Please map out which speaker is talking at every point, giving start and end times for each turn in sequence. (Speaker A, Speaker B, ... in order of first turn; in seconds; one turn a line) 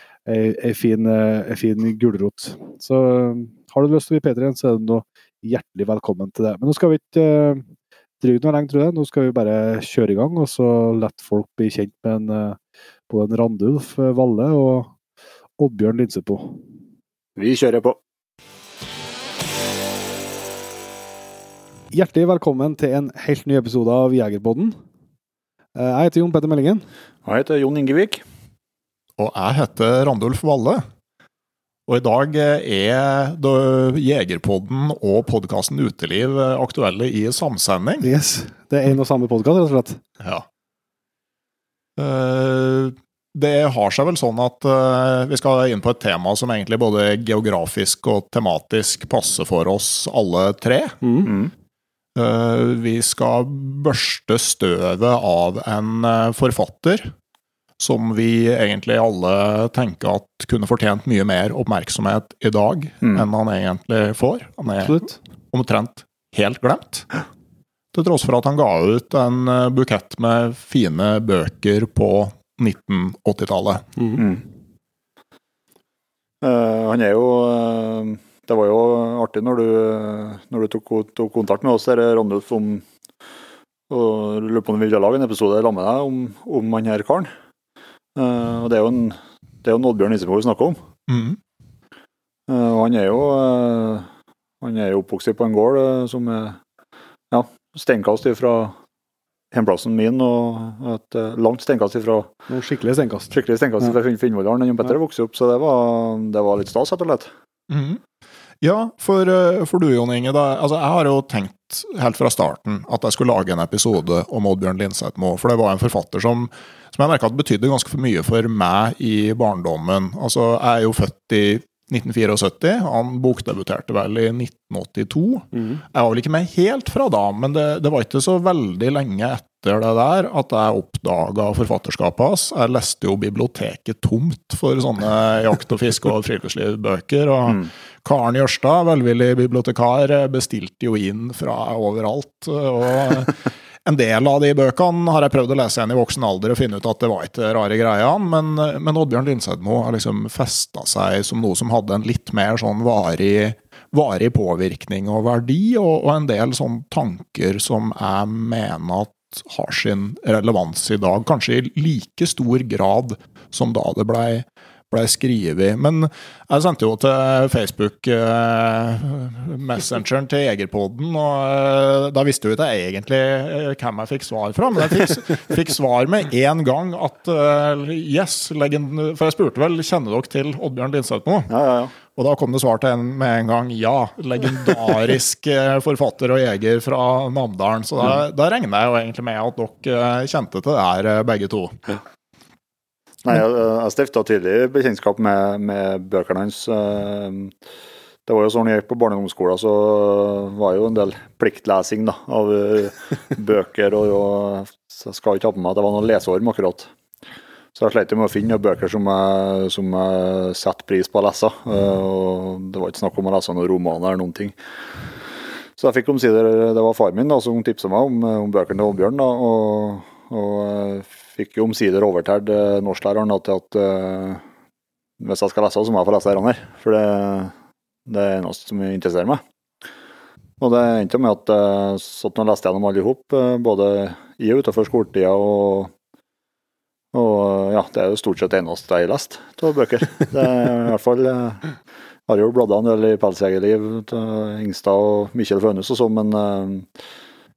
Speaker A: 0.3-7.6
Speaker A: 8.2-12.6
Speaker A: 13.1-14.9
Speaker A: 15.6-16.6
Speaker B: 17.4-18.0
Speaker A: 21.9-24.7
Speaker A: 25.8-26.8
Speaker B: 27.2-28.2
Speaker C: 29.2-30.8
Speaker C: 31.9-38.1
Speaker A: 38.0-40.0
Speaker C: 40.2-40.5
Speaker C: 42.0-51.0
Speaker A: 51.0-51.3
Speaker C: 52.1-57.1
Speaker C: 57.8-67.1
Speaker A: 64.7-65.2
Speaker C: 67.9-74.0
Speaker B: 76.4-82.8
Speaker B: 83.9-87.3
Speaker B: 88.2-90.8
Speaker C: 91.1-91.4
Speaker B: 92.5-94.1
Speaker B: 94.6-96.6
Speaker B: 97.3-98.7
Speaker B: 99.5-102.3
Speaker A: 102.5-103.9
Speaker B: 103.3-107.3
Speaker C: 107.7-108.0
Speaker C: 108.6-181.5
Speaker A: 125.5-125.8
Speaker B: 181.5-181.9
Speaker C: 182.0-191.9
Speaker B: 193.2-197.5
Speaker B: 198.3-206.9
Speaker B: 207.8-214.6
Speaker B: 215.8-224.4
Speaker B: 225.2-227.5
Speaker B: 228.1-229.4
Speaker B: 230.6-235.9
Speaker B: 237.1-241.7
Speaker B: 242.3-246.9